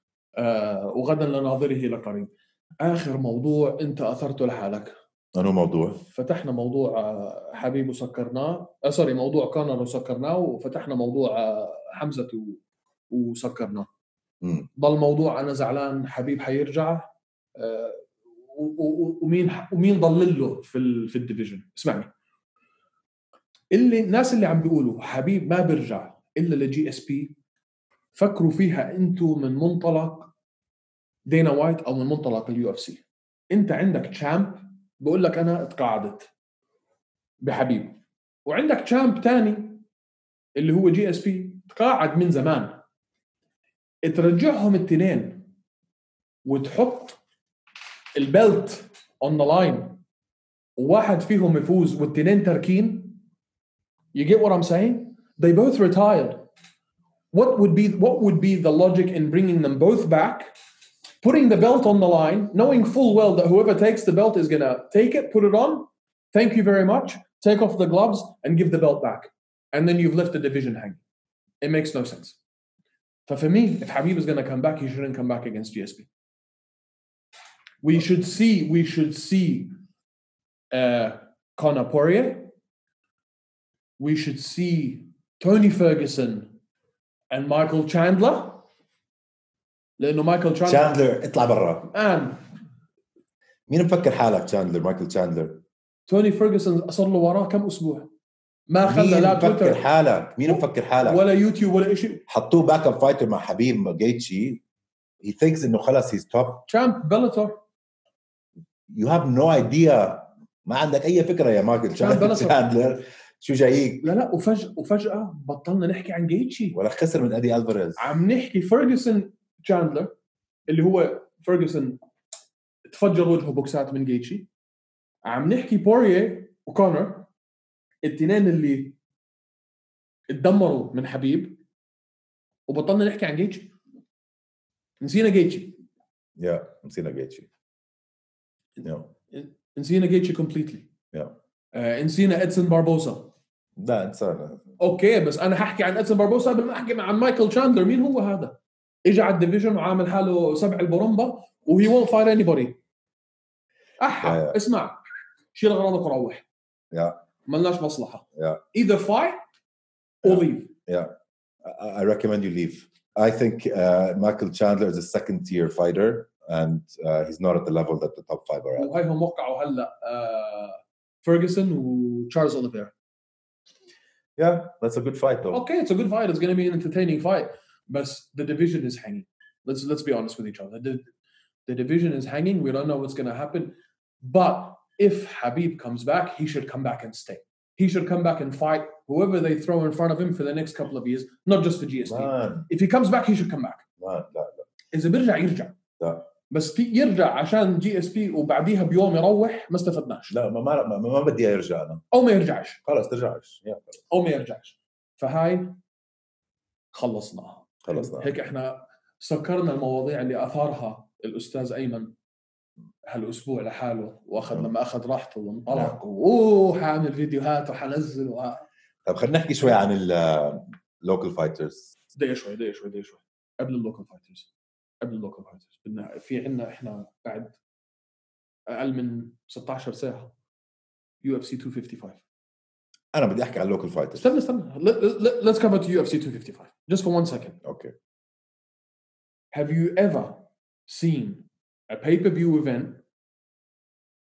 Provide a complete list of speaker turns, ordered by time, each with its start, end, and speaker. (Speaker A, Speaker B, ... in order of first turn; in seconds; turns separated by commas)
Speaker A: 0.4-4.9, Speaker B: 5.3-6.0, Speaker A: 6.1-13.9, Speaker B: 14.4-14.7, Speaker A: 14.8-22.1, Speaker A: 23.7-27.3, Speaker A: 28.1-30.3, Speaker A: 31.2-36.3, Speaker A: 37.4-39.8, Speaker A: 40.5-42.8, Speaker A: 44.0-45.5, Speaker A: 46.4-47.2, Speaker A: 48.1-50.0, Speaker A: 50.8-53.2, Speaker A: 54.1-56.5, Speaker A: 57.3-60.5, Speaker A: 61.2-71.0, Speaker A: 71.6-72.4, Speaker A: 73.3-76.1, Speaker A: 77.8-79.7, Speaker A: 80.7-82.5, Speaker A: 84.0-86.5, Speaker A: 87.3-88.6, Speaker A: 90.0-91.0, Speaker B: 90.7-91.9, Speaker A: 91.9-92.4, Speaker B: 93.7-95.6, Speaker A: 96.1-98.1, Speaker A: 98.7-99.8, Speaker B: 98.8-101.2, Speaker A: 100.5-102.2, Speaker B: 102.3-104.6, Speaker B: 105.2-106.7, Speaker A: 106.7-107.6, Speaker B: 108.9-114.1, Speaker A: 112.0-112.6, Speaker A: 114.0-116.8, Speaker B: 116.7-118.1, Speaker A: 118.0-120.1, Speaker A: 120.7-122.0, Speaker A: 122.9-124.5, Speaker A: 125.2-127.3, Speaker A: 128.0-129.0, Speaker A: 130.3-131.6, Speaker A: 132.7-133.7, Speaker A: 135.0-135.8, Speaker B: 136.4-137.5, Speaker B: 138.8-139.1, Speaker A: 139.3-140.9, Speaker A: 141.7-143.3, Speaker B: 143.8-144.7, Speaker A: 144.8-152.8, Speaker A: 154.0-155.0, Speaker B: 154.2-154.6, Speaker A: 155.5-156.4, Speaker B: 156.9-157.2, Speaker A: 157.5-159.4, Speaker B: 158.3-158.6, Speaker A: 160.2-160.7, Speaker B: 160.2-161.1, Speaker B: 161.6-168.9, Speaker A: 168.8-172.9, Speaker B: 174.4-175.6, Speaker A: 175.5-181.1, Speaker A: 181.7-193.8, Speaker B: 192.0-192.7, Speaker B: 194.0-194.7, Speaker A: 194.9-195.8, Speaker B: 196.0-196.2, Speaker A: 196.5-200.3, Speaker B: 200.3-202.0, Speaker A: 202.1-202.8, Speaker B: 202.8-204.0, Speaker A: 204.1-205.8, Speaker A: 206.9-212.1, Speaker B: 207.8-208.3, Speaker A: 213.1-218.6, Speaker B: 215.7-215.9, Speaker B: 219.1-221.9, Speaker A: 222.1-224.5, Speaker A: 225.0-227.6, Speaker A: 228.7-230.3, Speaker A: 231.2-232.2, Speaker B: 233.1-234.3, Speaker A: 234.2-237.6, Speaker B: 237.6-237.9, Speaker A: 239.5-243.0